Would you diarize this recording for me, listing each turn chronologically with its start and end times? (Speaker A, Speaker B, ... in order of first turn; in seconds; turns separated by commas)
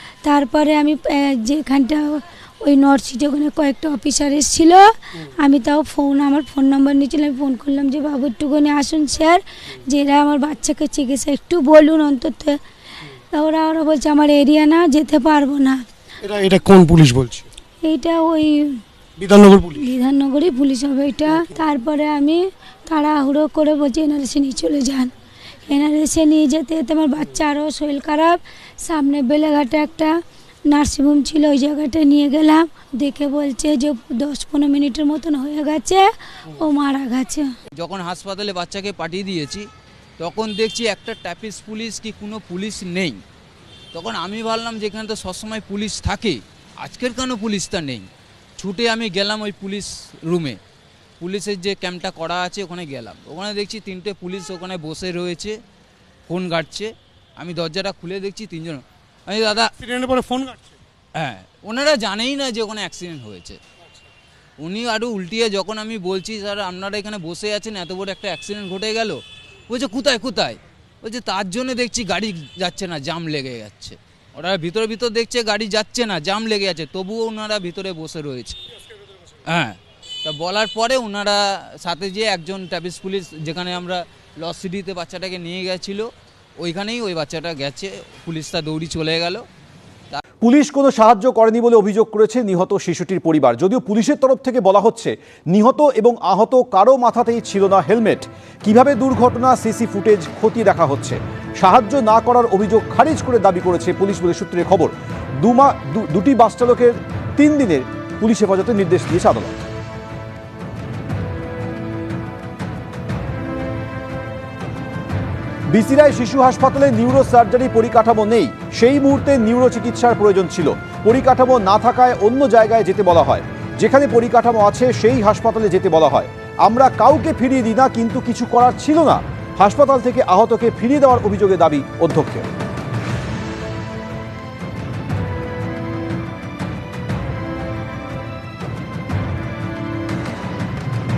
Speaker A: 0.2-12.6, Speaker A: 13.3-15.8, Speaker B: 16.2-17.5, Speaker A: 17.8-18.8, Speaker B: 19.2-19.9, Speaker A: 19.7-25.1, Speaker A: 25.7-30.1, Speaker A: 30.7-37.5, Speaker C: 37.8-39.6, Speaker C: 40.2-43.2, Speaker C: 43.9-50.6, Speaker C: 51.2-55.5, Speaker C: 56.3-59.7, Speaker B: 59.8-60.8, Speaker C: 61.1-63.6, Speaker C: 64.6-78.6, Speaker C: 79.5-86.1, Speaker C: 86.6-89.4, Speaker D: 90.4-109.6, Speaker D: 115.7-132.4